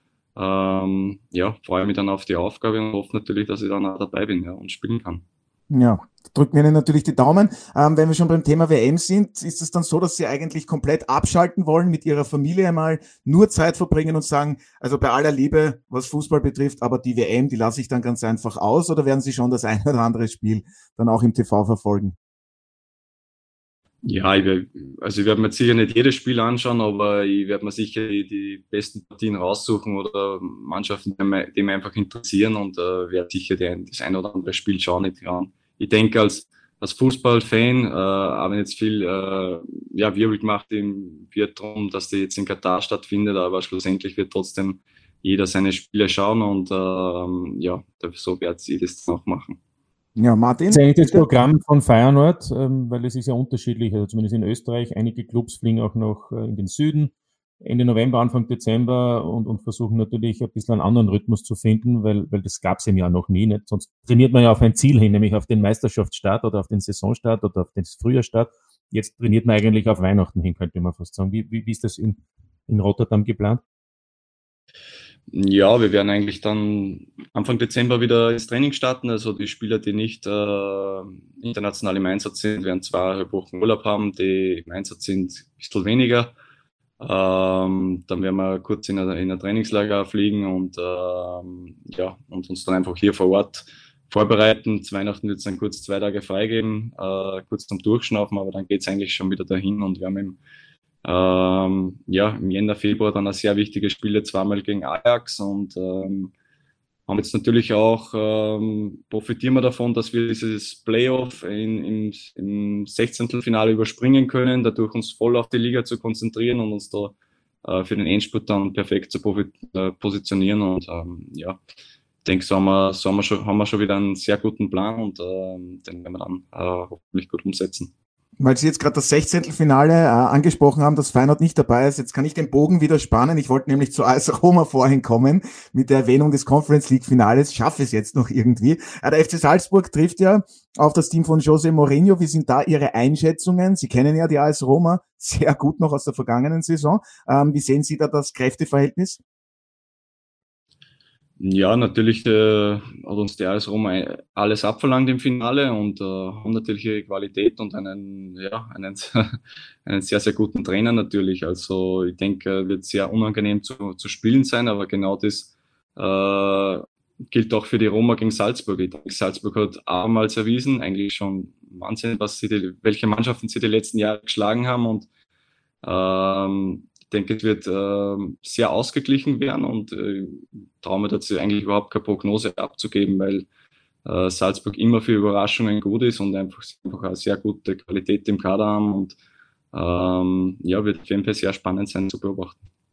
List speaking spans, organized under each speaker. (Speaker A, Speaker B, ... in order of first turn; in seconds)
Speaker A: 0.4-5.2, 24.0-49.6, 75.3-86.3, 87.0-100.4, 101.0-106.3, 107.1-117.1, 117.7-121.6, 122.2-127.9, 151.4-175.1, 175.8-183.5, 184.1-189.2, 189.7-192.6
Speaker B: 5.7-22.1, 50.2-51.3, 128.4-149.2
Speaker C: 50.7-73.6